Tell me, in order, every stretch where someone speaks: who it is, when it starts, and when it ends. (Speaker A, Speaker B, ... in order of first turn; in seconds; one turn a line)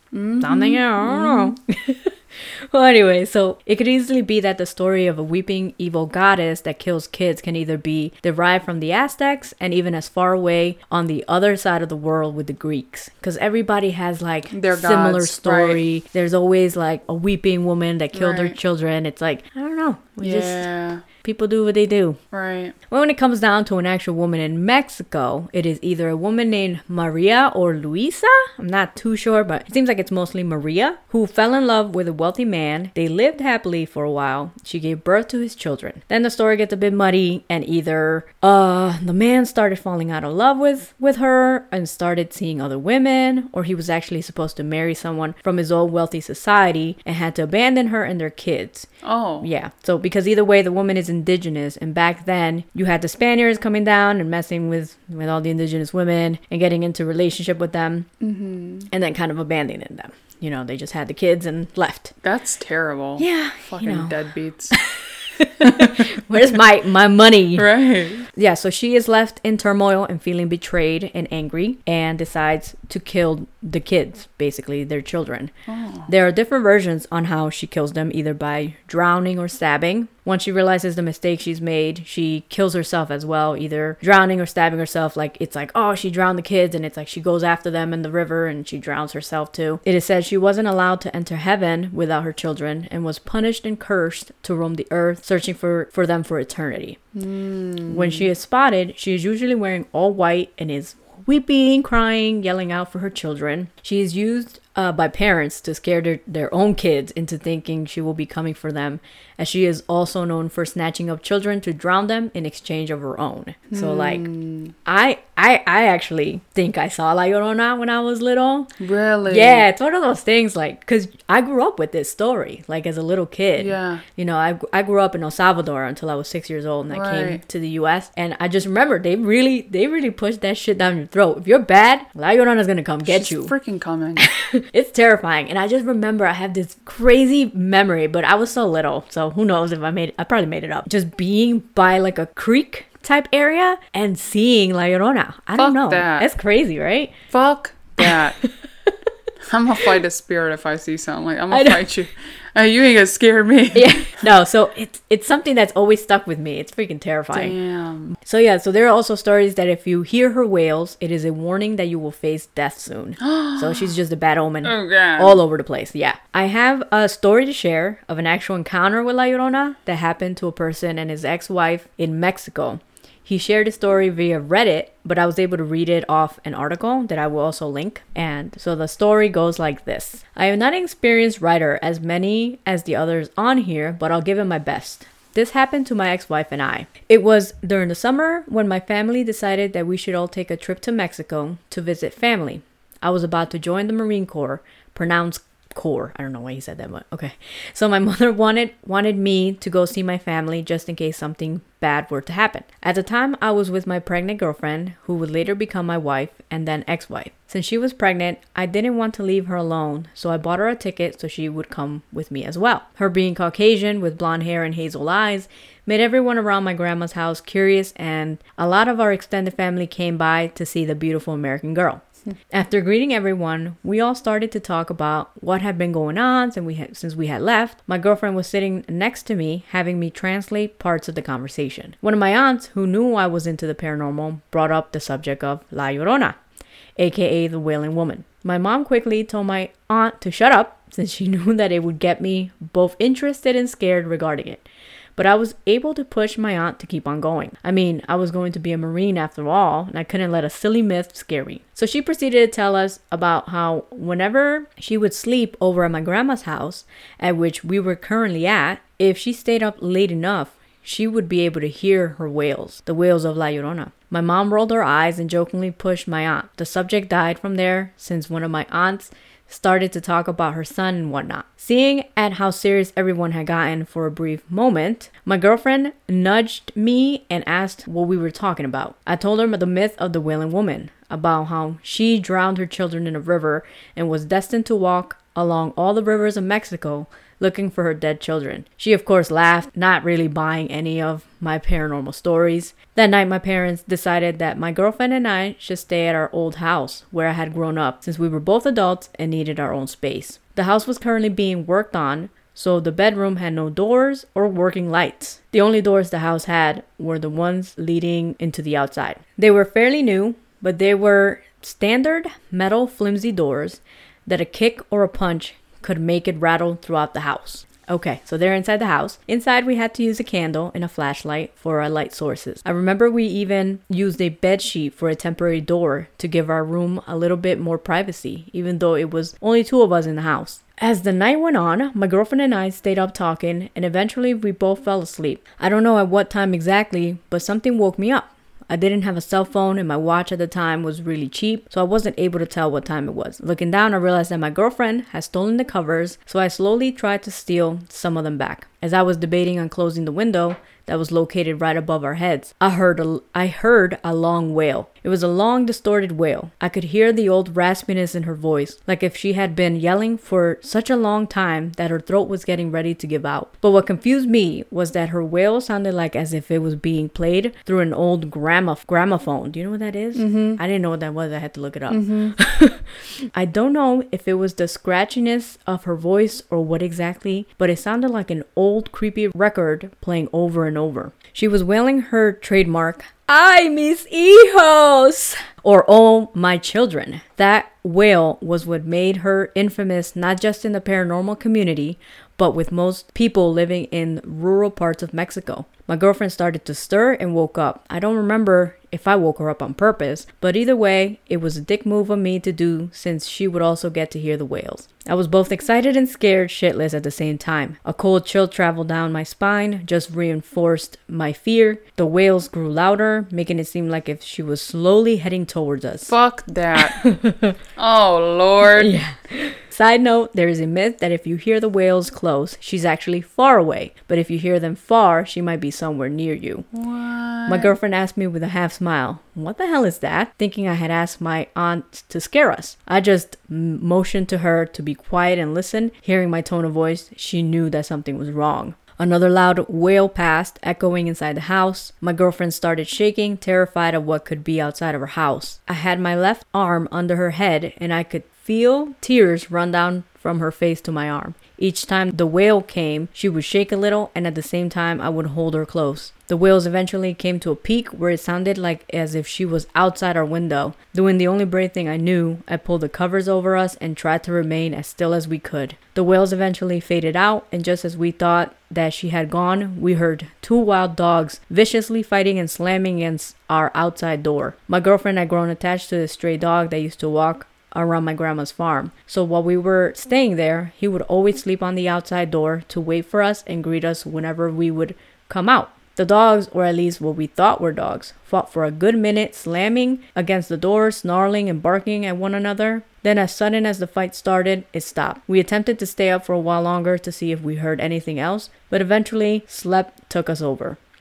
Speaker A: 0.1-1.6
Speaker B: 0.4-22.2
Speaker A: 14.5-15.8
Speaker A: 18.1-18.6
Speaker A: 20.2-21.1
Speaker A: 22.3-22.8
Speaker B: 22.9-48.9
Speaker A: 49.0-49.5
Speaker B: 49.4-58.1
Speaker A: 58.2-58.9
Speaker B: 58.9-62.1
Speaker A: 62.2-64.8
Speaker B: 63.2-64.2
Speaker B: 64.7-67.7
Speaker A: 65.6-66.6
Speaker A: 67.6-68.3
Speaker B: 68.3-75.5
Speaker A: 75.7-76.1
Speaker B: 76.1-97.0
Speaker A: 97.2-98.3
Speaker B: 97.9-114.3
Speaker A: 113.7-114.7
Speaker B: 114.8-118.8
Speaker A: 118.8-119.7
Speaker B: 119.3-133.5
Speaker A: 123.6-124.0
Speaker A: 126.9-127.4
Speaker A: 133.1-134.3
Speaker B: 134.2-147.2
Speaker A: 145.6-146.3
Speaker A: 147.3-148.4
Speaker B: 148.0-148.9
Speaker A: 149.5-154.1
Speaker B: 151.5-151.8
Speaker B: 153.7-157.6
Speaker A: 157.3-158.1
Speaker B: 158.2-236.4
Speaker A: 163.2-163.9
Speaker A: 164.6-165.4
Speaker B: 237.0-244.7
Speaker B: 245.2-416.1
Speaker A: 370.1-370.6
Speaker A: 371.9-372.4
Speaker A: 416.1-417.0
Speaker B: 416.8-417.6
Speaker A: 417.8-419.0
Speaker B: 418.7-426.7
Speaker A: 426.7-427.8
Speaker B: 427.5-500.8